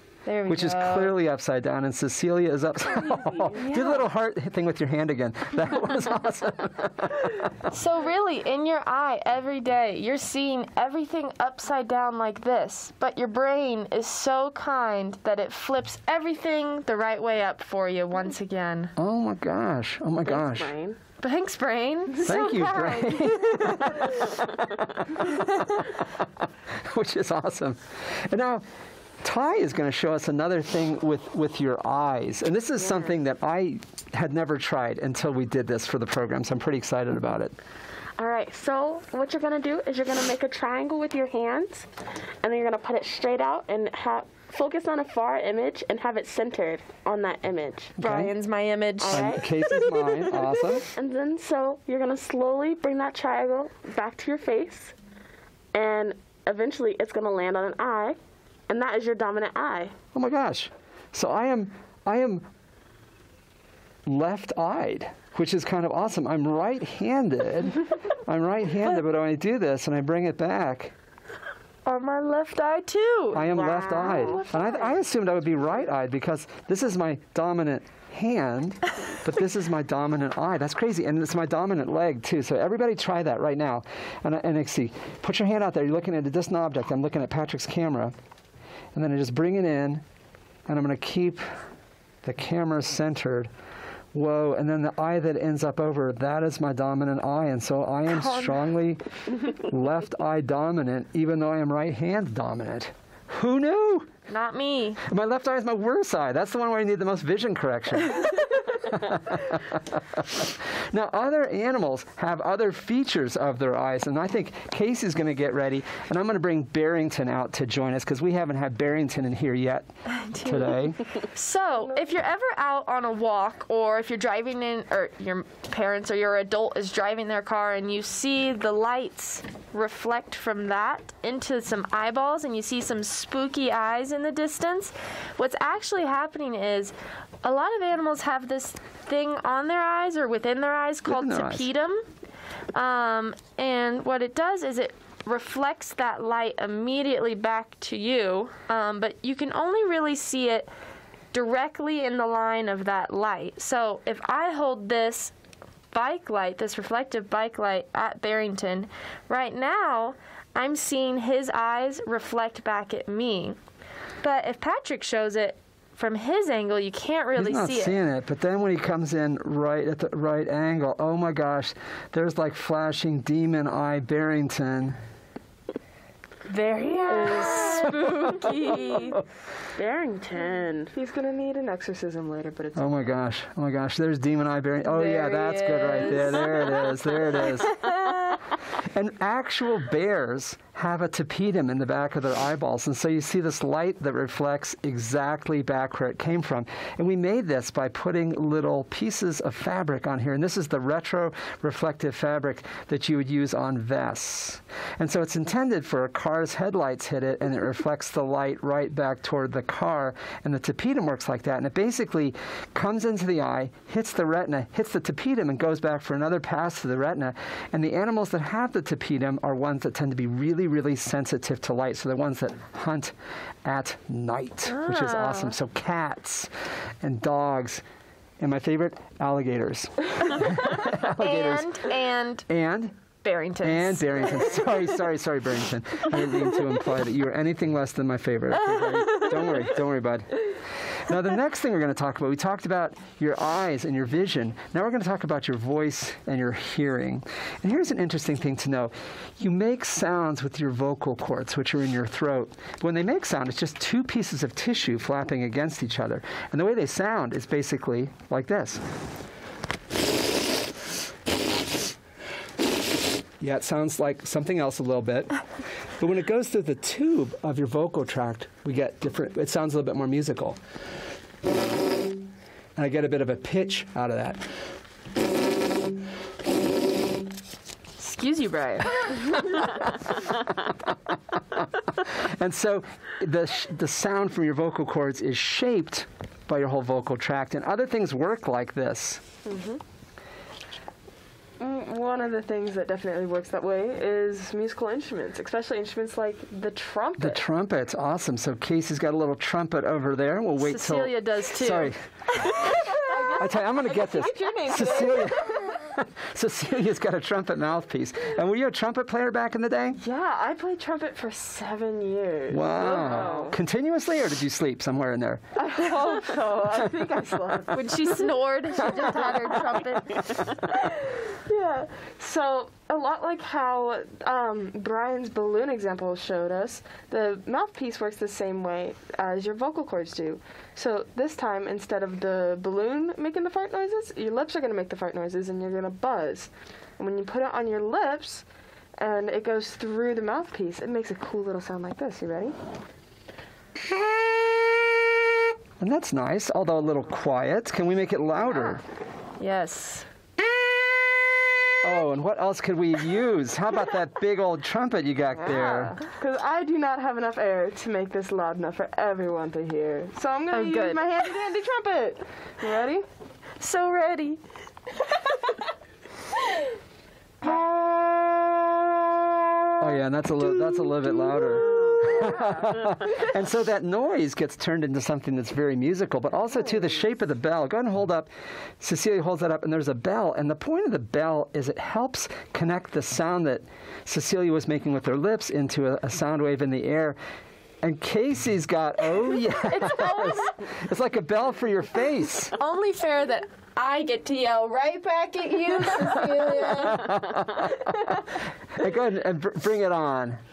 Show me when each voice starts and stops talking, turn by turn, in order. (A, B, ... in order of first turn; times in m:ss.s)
0:00.2-0:01.2 A
0:00.5-0:07.5 B
0:03.5-0:04.1 A
0:07.6-0:18.9 A
0:19.0-0:20.7 B
0:20.2-0:21.0 C
0:21.2-0:24.2 A
0:22.2-0:28.6 B
0:25.2-0:25.8 A
0:29.2-0:37.5 B
0:38.2-0:41.9 C
0:42.4-0:47.9 C
0:48.0-0:48.3 B
0:48.0-0:49.4 A
0:49.0-0:54.9 C
0:49.1-0:50.9 B
0:55.7-0:59.9 C
1:00.1-1:02.5 B
1:04.0-1:10.9 B
1:11.8-1:14.3 A
1:13.3-1:28.1 B
1:13.4-1:14.4 C
1:14.1-1:14.9 D
1:28.9-1:30.0 B
1:30.7-1:31.4 B
1:32.2-1:33.5 B
1:34.1-1:44.1 B
1:44.3-1:45.0 A
1:45.0-1:59.9 B
2:00.1-2:22.0 A
2:00.4-2:01.1 B
2:21.0-2:21.7 B
2:22.7-2:30.7 A
2:31.3-2:35.3 A
2:35.9-2:43.6 A
2:44.2-2:48.0 A
2:47.3-2:55.0 B
2:56.4-2:59.2 A
2:57.1-2:58.0 C
2:59.8-3:00.9 C
3:00.3-3:02.9 D
3:02.8-3:07.8 B
3:04.8-3:06.9 A
3:08.8-3:47.8 B
3:44.7-3:45.5 A
3:48.4-3:51.9 B
3:50.8-3:52.5 A
3:52.5-3:52.9 B
3:53.2-3:54.6 A
3:53.6-4:18.8 B
4:23.4-4:25.3 B
4:26.0-4:30.6 B
4:32.8-4:34.4 B
4:38.0-4:39.1 A
4:41.3-4:49.2 B
4:49.4-4:49.8 D
4:51.6-4:57.4 D
4:57.2-5:10.0 B
5:00.6-5:01.9 A
5:02.4-5:02.9 A
5:03.0-5:05.7 D
5:03.9-5:05.2 C
5:09.9-5:13.6 D
5:12.5-5:15.4 B
5:13.0-5:13.4 C
5:15.5-5:20.0 D
5:17.7-5:20.6 A
5:20.6-5:38.4 D
5:39.0-5:42.6 D
5:45.8-5:48.8 B
5:48.4-5:48.8 D
5:49.4-5:50.0 A
5:51.8-5:56.0 B
5:55.4-6:03.0 D
6:00.5-6:01.1 A
6:03.6-6:04.4 A
6:07.4-6:09.3 D
6:09.8-6:27.2 B
6:11.2-6:12.5 D
6:11.9-6:12.3 C
6:27.8-6:32.5 B
6:29.6-6:30.6 A
6:32.6-6:37.2 A
6:36.0-6:40.4 B